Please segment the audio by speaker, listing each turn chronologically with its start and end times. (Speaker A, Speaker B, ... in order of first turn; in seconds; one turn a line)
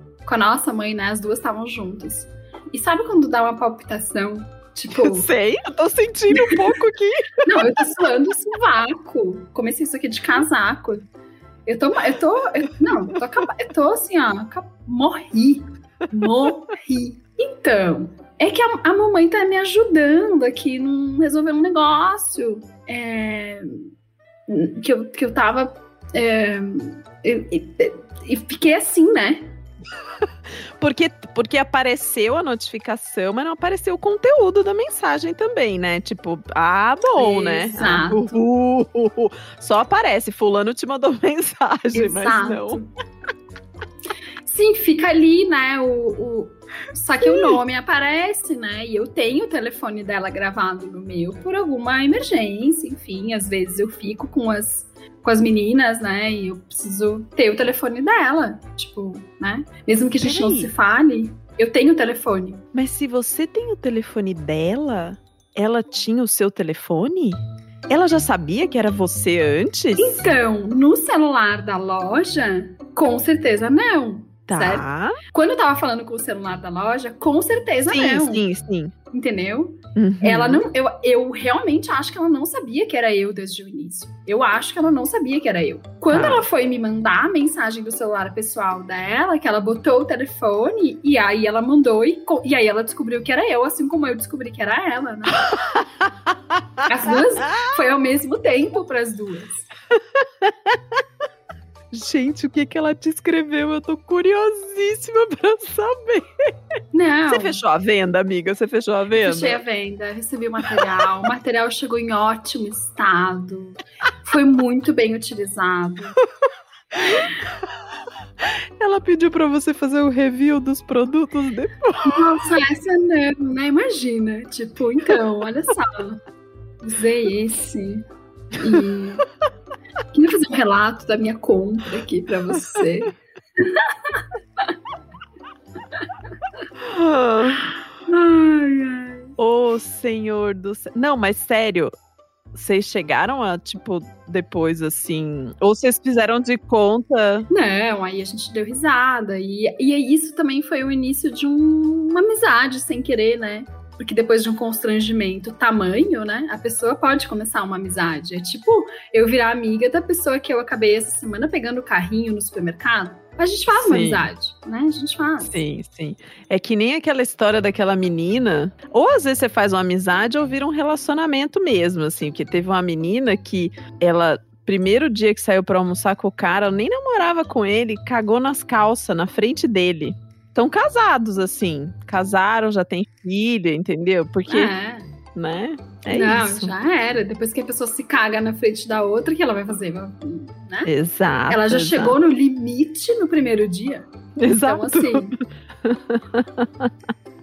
Speaker A: 0.2-5.3
Speaker B: 4.9-7.7
Speaker A: 7.5-11.0
Speaker A: 11.7-23.9
Speaker A: 24.5-29.5
Speaker B: 30.8-42.8
Speaker A: 37.1-38.4
Speaker A: 41.9-42.9
Speaker A: 44.4-62.6
Speaker B: 47.2-47.5
Speaker B: 60.2-60.7
Speaker B: 62.7-70.2
Speaker A: 70.0-78.4
Speaker B: 74.5-75.2
Speaker B: 77.9-78.9
Speaker A: 79.1-95.4
Speaker B: 80.0-80.6
Speaker B: 86.1-86.5
Speaker B: 95.5-96.6
Speaker A: 96.8-99.7
Speaker B: 100.4-100.7
Speaker B: 101.9-106.2
Speaker A: 106.9-107.6
Speaker B: 107.3-109.6
Speaker A: 109.2-116.1
Speaker B: 118.8-122.2
Speaker A: 122.0-126.2
Speaker A: 126.8-128.0
Speaker A: 128.6-129.2
Speaker A: 130.1-134.7
Speaker B: 136.8-137.6
Speaker A: 138.1-139.3
Speaker B: 139.4-141.9
Speaker B: 142.5-147.5
Speaker A: 147.5-165.6
Speaker B: 163.7-164.3
Speaker B: 165.4-184.7
Speaker A: 184.5-185.1
Speaker B: 185.3-186.7
Speaker A: 186.1-190.9
Speaker B: 190.8-192.2
Speaker A: 191.5-195.3
Speaker B: 194.4-195.3
Speaker B: 195.8-196.9